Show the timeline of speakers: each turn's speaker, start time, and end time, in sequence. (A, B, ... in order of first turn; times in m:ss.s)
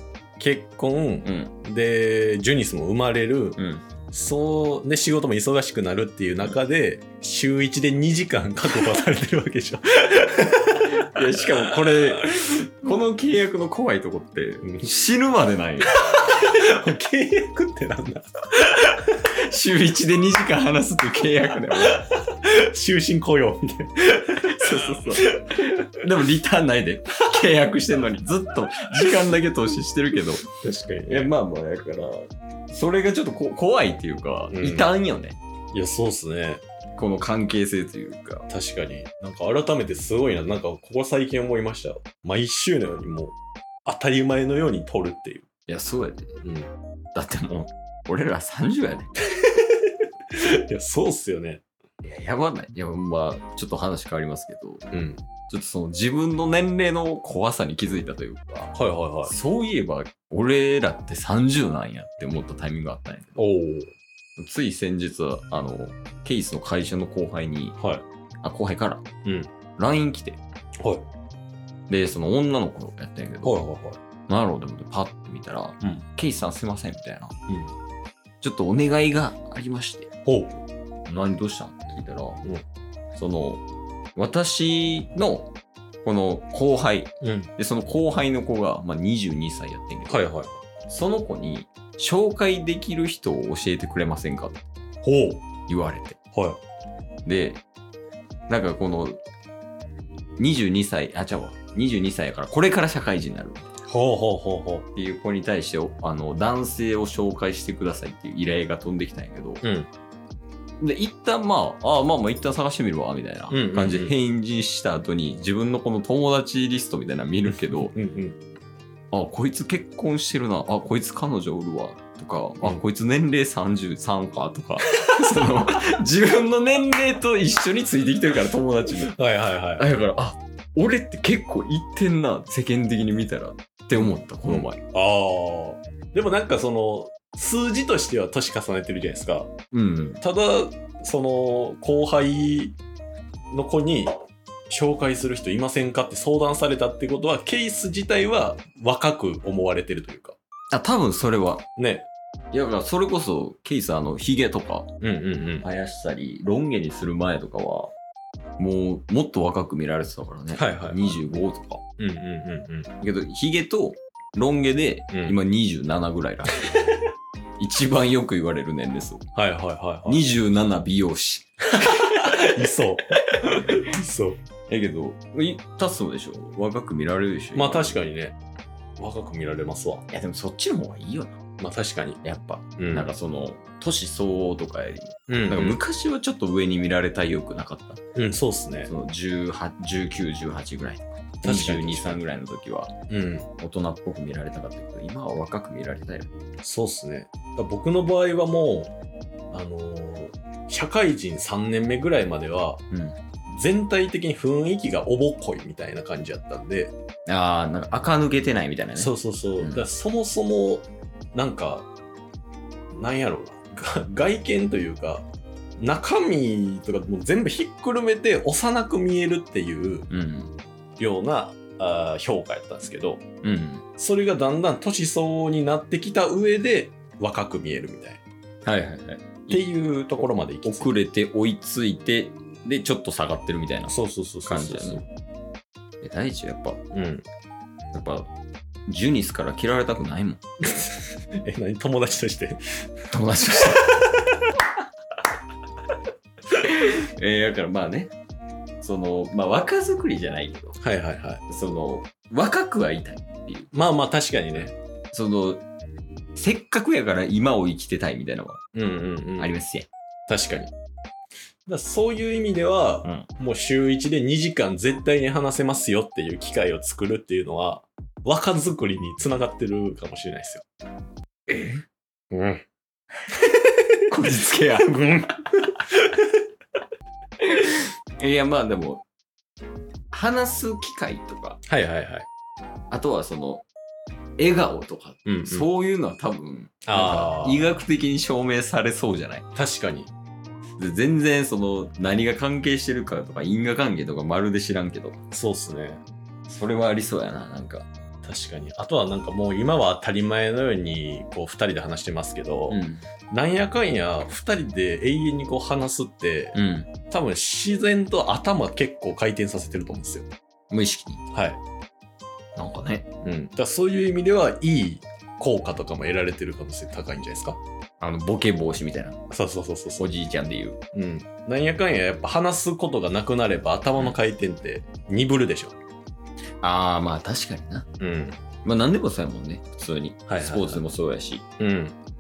0:00.4-0:11.7 A
0:01.2-0:01.5 B
0:03.6-0:03.8 B
0:10.9-0:15.9 B
0:15.9-0:19.0 A
0:19.4-0:22.0 B
0:21.9-0:25.6 A
0:24.4-0:30.5 B
0:30.6-0:31.3 A
0:31.0-0:35.4 B
0:34.5-0:34.9 A
0:35.7-0:36.6 A
0:37.0-0:38.5 B
0:38.5-0:45.5 A
0:45.7-0:46.4 B
0:46.4-0:46.7 A
0:47.2-0:49.1 B
0:49.4-0:51.6 A
0:52.0-0:54.8 B
0:54.9-0:55.2 A
0:55.5-0:58.7 B
0:58.7-0:59.4 A
0:59.3-1:03.4 B
1:03.4-1:03.9 A
1:04.4-1:07.8 B
1:07.8-1:08.0 A
1:08.4-1:09.0 B
1:09.2-1:09.5 A
1:09.8-1:10.4 B
1:11.9-1:13.6 B
1:13.4-1:14.0 A
1:14.3-1:17.3 B
1:17.5-1:17.7 A
1:18.4-1:20.1 B
1:20.2-1:20.6 A
1:21.1-1:22.4 B
1:23.2-1:23.6 B
1:24.2-1:25.5 B
1:26.0-1:30.3 B
1:27.2-1:27.5 A
1:30.1-1:30.6 A
1:30.9-1:34.6 B
1:35.0-1:35.5 A
1:35.7-1:36.2 B
1:36.3-1:36.6 A
1:37.2-1:37.6 B
1:38.5-1:39.2 B
1:40.4-1:43.7 B
1:43.8-1:44.9 A
1:45.0-1:49.6 B
1:49.6-1:49.9 A
1:50.8-1:57.9 B
1:53.5-1:54.1 A
1:57.5-1:58.4 A
1:59.1-2:09.2 B
2:09.0-2:09.9 A
2:09.8-2:14.8 B
2:14.0-2:19.5 A
2:19.7-2:20.2 B
2:20.2-2:22.8 A
2:23.5-2:30.4 A
2:30.7-2:31.7 B
2:31.8-2:32.1 A
2:32.5-2:34.9 B
2:35.0-2:35.7 A
2:35.6-2:37.9 B
2:38.6-2:41.8 B
2:40.6-2:41.1 A
2:42.0-2:42.9 A
2:43.0-2:46.6 B
2:45.1-2:45.4 A
2:47.6-2:49.3 B
2:49.4-2:50.2 A
2:50.1-2:52.5 B
2:51.9-2:54.4 A
2:54.7-2:58.0 B
2:57.6-2:58.4 A
2:59.0-3:00.1 A
3:00.1-3:01.4 B
3:01.6-3:02.2 A
3:02.2-3:08.0 B
3:02.8-3:03.1 A
3:05.3-3:05.8 A
3:08.2-3:08.9 A
3:08.9-3:12.9 B
3:11.4-3:12.2 A
3:13.1-3:13.5 A
3:13.6-3:16.3 B
3:16.6-3:18.9 A
3:19.5-3:22.8 A
3:22.9-3:23.2 B
3:23.5-3:26.9 A
3:27.3-3:29.8 B
3:29.0-3:31.9 A
3:32.9-3:35.2 A
3:35.8-3:40.1 A
3:40.1-3:40.5 B
3:41.0-3:43.2 A
3:43.4-3:43.8 B
3:44.0-3:48.2 A
3:48.6-3:49.7 B
3:49.5-3:51.0 A
3:50.2-3:54.0 B
3:53.9-3:55.1 A
3:54.5-3:55.0 B
3:56.0-3:56.8 B
3:56.9-3:57.2 A
3:57.9-3:58.3 B
3:58.9-4:00.4 B
4:00.6-4:02.6 A
4:03.1-4:03.9 B
4:03.6-4:04.1 A
4:06.6-4:08.1 B
4:08.8-4:10.8 B
4:10.8-4:11.4 A
4:11.5-4:13.8 B
4:13.7-4:14.7 A
4:14.5-4:15.6 B
4:16.4-4:18.6 B
4:18.7-4:19.5 A
4:19.4-4:19.9 B
4:20.3-4:20.7 A
4:21.7-4:30.6 A
4:31.5-4:31.8 B
4:32.3-4:32.6 A
4:34.1-4:35.7 B
4:37.4-4:39.0 B
4:40.1-4:41.6 B
4:41.7-4:42.3 A
4:42.9-4:43.6 B
4:44.4-4:49.5 B
4:45.3-4:45.7 A
4:46.8-4:47.7 A
4:49.5-4:50.1 A
4:50.8-4:55.2 B
4:55.3-4:56.0 A
4:56.5-4:57.9 B
4:58.2-5:10.3 A
5:02.7-5:03.1 B
5:06.6-5:06.9 B
5:10.7-5:11.2 B
5:11.3-5:11.6 A
5:12.6-5:13.1 B
5:13.2-5:17.6 A
5:18.0-5:19.2 B
5:19.3-5:20.1 A
5:20.0-5:20.8 B
5:20.9-5:25.8 A
5:26.6-5:27.9 B
5:28.0-5:28.4 A
5:28.6-5:31.4 B
5:30.3-5:30.8 A
5:31.6-5:32.0 A